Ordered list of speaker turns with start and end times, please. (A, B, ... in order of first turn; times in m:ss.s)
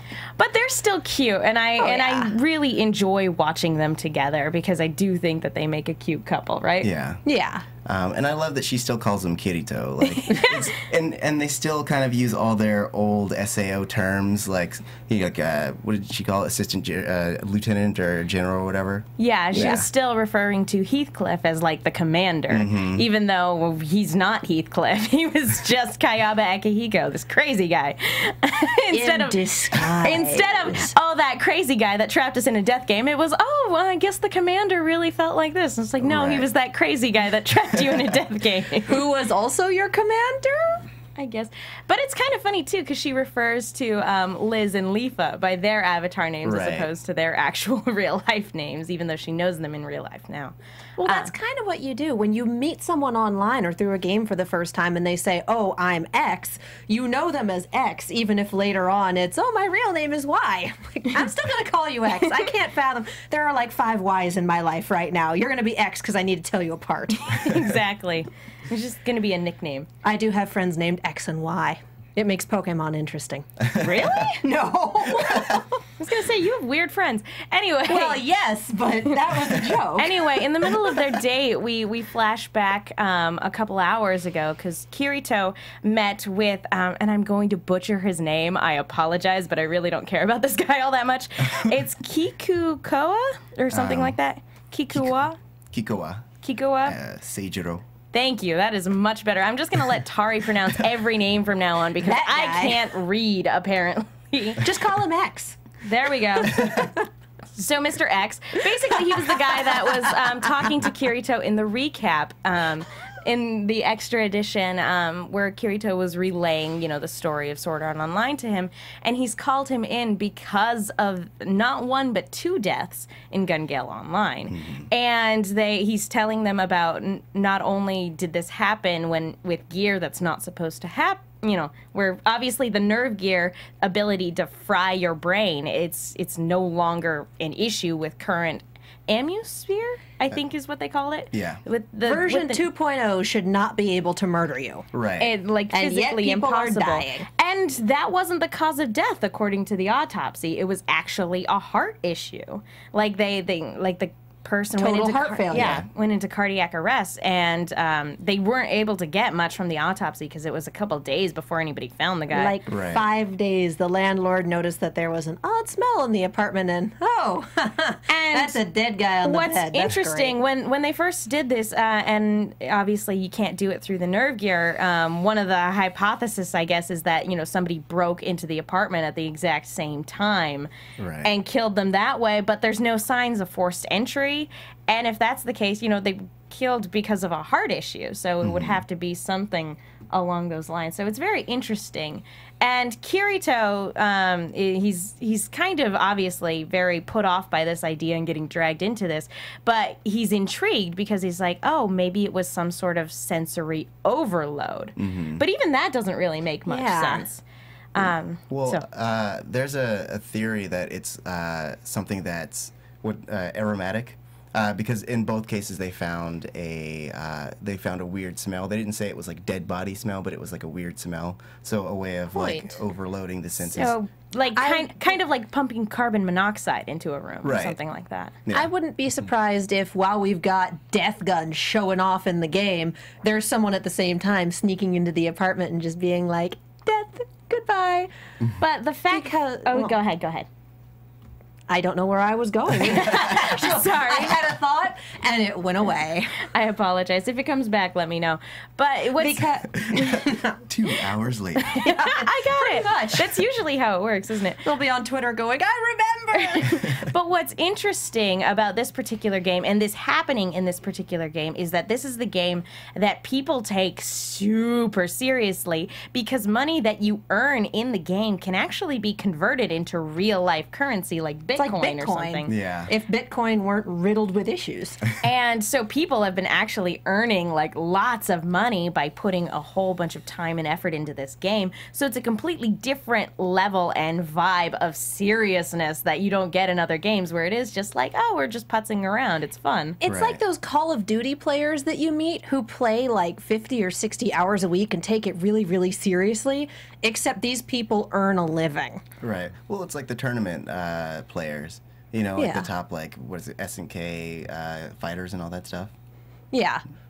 0:00.4-0:06.9 A
0:01.8-0:02.3 B
0:06.8-0:07.2 C
0:07.2-0:07.6 B
0:07.8-0:19.8 C
0:10.2-0:10.5 A
0:19.2-0:29.4 A
0:19.5-0:19.8 B
0:22.5-0:23.0 C
0:28.9-0:30.9 B
0:30.0-0:39.0 A
0:36.0-0:36.5 C
0:38.8-0:40.8 B
0:41.2-0:50.5 A
0:46.4-0:46.9 C
0:51.0-1:07.6 B
0:51.0-0:51.3 A
1:07.2-1:09.9 A
1:10.0-1:15.8 B
1:13.8-1:14.4 A
1:16.0-1:18.2 A
1:17.9-1:21.0 B
1:20.0-1:35.4 A
1:33.7-1:34.1 C
1:35.7-1:36.3 C
1:36.4-1:37.0 A
1:36.8-1:37.8 C
1:38.1-1:44.6 A
1:42.0-1:42.8 B
1:44.6-1:45.6 B
1:45.8-1:47.0 A
1:46.6-1:46.9 B
1:47.6-2:22.6 A
1:49.5-1:49.8 B
2:04.5-2:04.9 C
2:21.3-2:21.6 C
2:22.0-2:24.8 B
2:24.9-2:25.3 C
2:25.2-2:42.6 A
2:25.7-2:27.3 B
2:34.8-2:35.8 B
2:35.5-2:35.9 C
2:42.3-2:50.4 B
2:42.7-2:43.0 C
2:48.1-2:48.6 A
2:49.2-3:00.7 A
3:01.0-3:01.3 C
3:01.2-3:28.8 A
3:08.4-3:08.8 C
3:25.0-3:25.4 C
3:26.7-3:27.3 B
3:28.0-3:44.0 C
3:42.3-3:42.8 B
3:43.7-3:48.4 A
3:44.5-3:45.2 B
3:47.4-3:47.8 C
3:48.5-3:58.1 B
3:58.6-4:00.5 A
3:59.1-4:00.0 B
4:01.7-4:06.4 B
4:02.8-4:04.4 A
4:06.4-4:09.6 A
4:09.2-4:10.5 B
4:09.7-4:11.8 C
4:11.7-4:14.6 A
4:11.8-4:13.4 B
4:14.6-4:16.9 B
4:16.3-4:32.5 A
4:31.6-4:35.0 B
4:32.5-4:32.9 C
4:35.2-4:50.0 A
4:50.0-4:59.0 B
4:50.0-4:50.4 C
4:59.2-5:05.9 C
5:02.4-5:02.7 B
5:06.5-5:06.8 B